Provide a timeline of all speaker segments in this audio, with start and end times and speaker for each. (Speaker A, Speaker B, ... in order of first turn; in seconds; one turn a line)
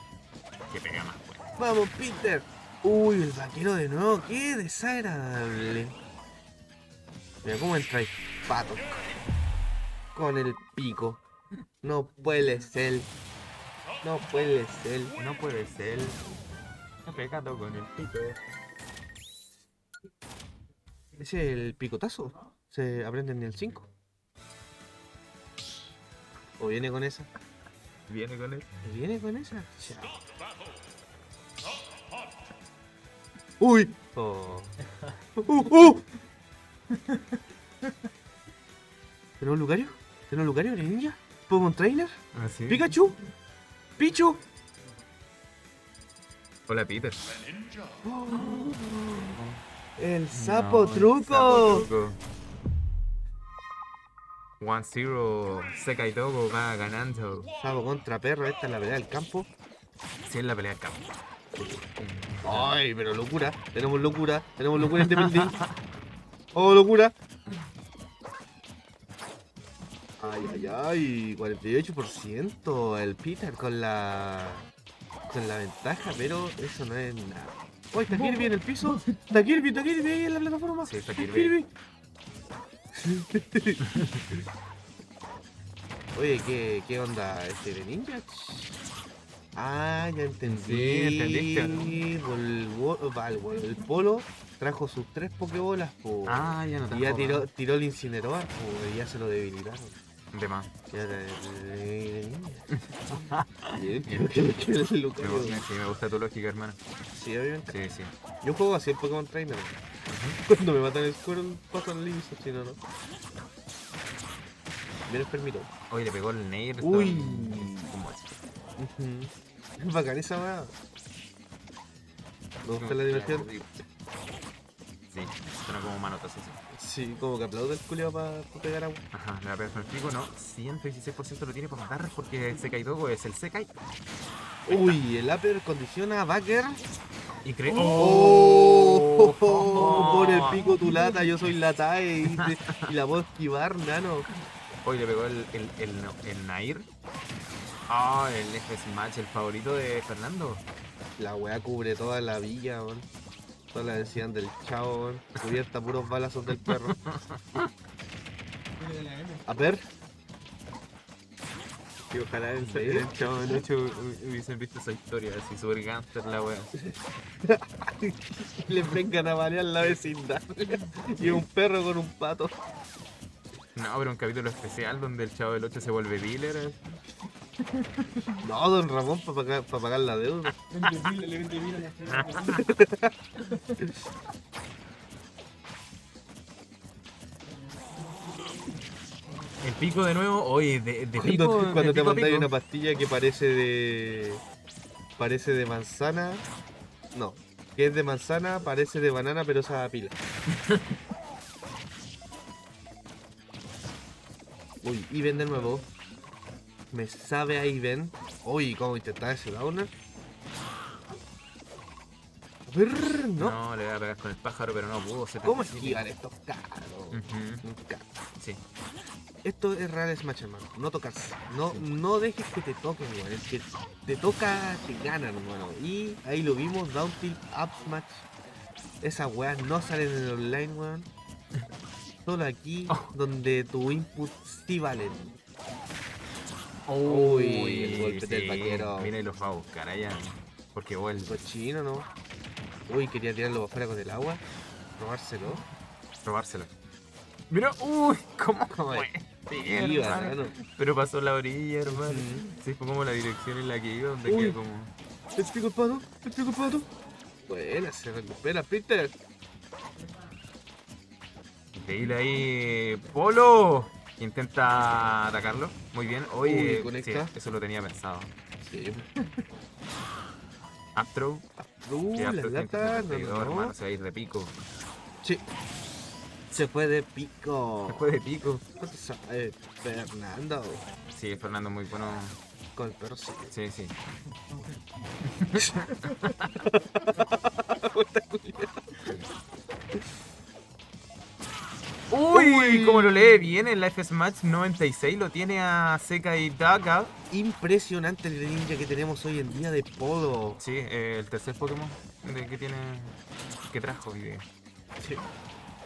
Speaker A: 0.7-1.5
Speaker B: 1.6-6.0
Speaker B: 7.4-9.1
Speaker B: 10.1-11.2
Speaker B: 11.8-13.1
Speaker B: 14.0-15.2
Speaker A: 15.2-16.2
Speaker A: 17.1-18.4
Speaker B: 21.2-23.9
Speaker B: 26.6-27.3
Speaker A: 28.1-28.7
Speaker B: 28.8-30.1
Speaker B: 33.6-34.7
Speaker B: 35.4-36.1
Speaker C: 36.9-37.2
Speaker B: 39.4-42.2
Speaker A: 42.3-42.9
Speaker B: 42.7-43.2
Speaker B: 44.0-44.4
Speaker A: 46.7-47.2
Speaker B: 48.0-49.4
Speaker A: 48.4-48.7
Speaker A: 49.3-49.6
Speaker B: 50.0-51.9
Speaker A: 50.3-52.2
Speaker A: 54.6-57.5
Speaker B: 57.6-59.5
Speaker A: 60.3-61.0
Speaker B: 61.6-61.9
Speaker A: 62.0-62.8
Speaker B: 62.4-65.6
Speaker A: 64.8-65.7
Speaker B: 66.5-67.2
Speaker B: 70.2-74.7
Speaker B: 75.3-81.7
Speaker C: 78.1-79.2
Speaker A: 80.8-81.5
Speaker B: 82.9-83.8
Speaker A: 83.9-84.3
Speaker B: 86.2-88.8
Speaker B: 89.5-100.0
Speaker A: 90.4-92.0
Speaker A: 96.3-97.5
Speaker A: 100.3-100.7
Speaker B: 100.9-105.6
Speaker A: 103.1-104.3
Speaker A: 105.2-106.8
Speaker B: 107.1-107.8
Speaker A: 107.7-108.1
Speaker B: 108.4-109.9
Speaker A: 110.1-110.4
Speaker B: 110.5-112.8
Speaker B: 115.1-115.7
Speaker A: 115.9-118.4
Speaker B: 116.8-117.9
Speaker B: 118.8-120.7
Speaker A: 122.6-123.7
Speaker B: 122.7-123.5
Speaker A: 125.1-126.6
Speaker B: 126.7-129.0
Speaker A: 129.1-133.7
Speaker A: 134.7-135.0
Speaker B: 134.7-136.8
Speaker A: 137.4-140.8
Speaker C: 137.7-138.5
Speaker B: 138.0-144.3
Speaker C: 139.7-141.2
Speaker A: 142.3-142.9
Speaker A: 144.8-146.9
Speaker A: 147.9-150.6
Speaker B: 151.2-153.1
Speaker B: 153.7-157.0
Speaker A: 156.5-157.7
Speaker C: 158.8-159.8
Speaker B: 159.5-159.8
Speaker A: 162.1-166.7
Speaker B: 162.5-163.7
Speaker B: 166.8-172.6
Speaker A: 173.8-176.8
Speaker B: 178.4-180.6
Speaker C: 180.7-182.7
Speaker A: 182.1-182.6
Speaker B: 182.6-183.2
Speaker C: 183.5-183.8
Speaker C: 187.8-188.7
Speaker A: 189.6-192.5
Speaker B: 191.2-194.4
Speaker B: 195.2-196.5
Speaker B: 197.1-200.2
Speaker B: 204.8-205.8
Speaker B: 206.9-209.9
Speaker B: 212.7-213.6
Speaker A: 213.4-216.1
Speaker B: 215.4-218.0
Speaker A: 217.1-217.7
Speaker B: 219.4-228.3
Speaker B: 229.0-231.1
Speaker B: 232.3-235.3
Speaker A: 232.9-233.1
Speaker A: 236.9-241.4
Speaker B: 237.0-239.1
Speaker B: 241.3-242.1
Speaker B: 242.9-244.4
Speaker B: 245.0-245.6
Speaker A: 246.2-246.7
Speaker A: 247.5-254.9
Speaker B: 248.7-250.5
Speaker B: 251.9-252.5
Speaker B: 254.3-254.6
Speaker B: 255.3-256.9
Speaker B: 257.4-259.1
Speaker A: 261.7-268.3
Speaker B: 266.4-267.3
Speaker B: 268.6-269.1
Speaker A: 270.9-271.5
Speaker B: 271.6-273.7
Speaker A: 272.1-274.6
Speaker B: 276.5-278.0
Speaker A: 277.9-278.6
Speaker B: 278.8-280.9
Speaker A: 281.1-282.4
Speaker B: 282.8-283.5
Speaker A: 283.5-283.9
Speaker C: 284.5-284.8
Speaker A: 285.2-286.6
Speaker B: 285.6-285.9
Speaker B: 286.6-289.1
Speaker A: 292.1-297.1
Speaker B: 292.3-293.5
Speaker B: 297.3-300.6
Speaker A: 300.6-303.2
Speaker A: 303.7-304.5
Speaker B: 305.0-305.3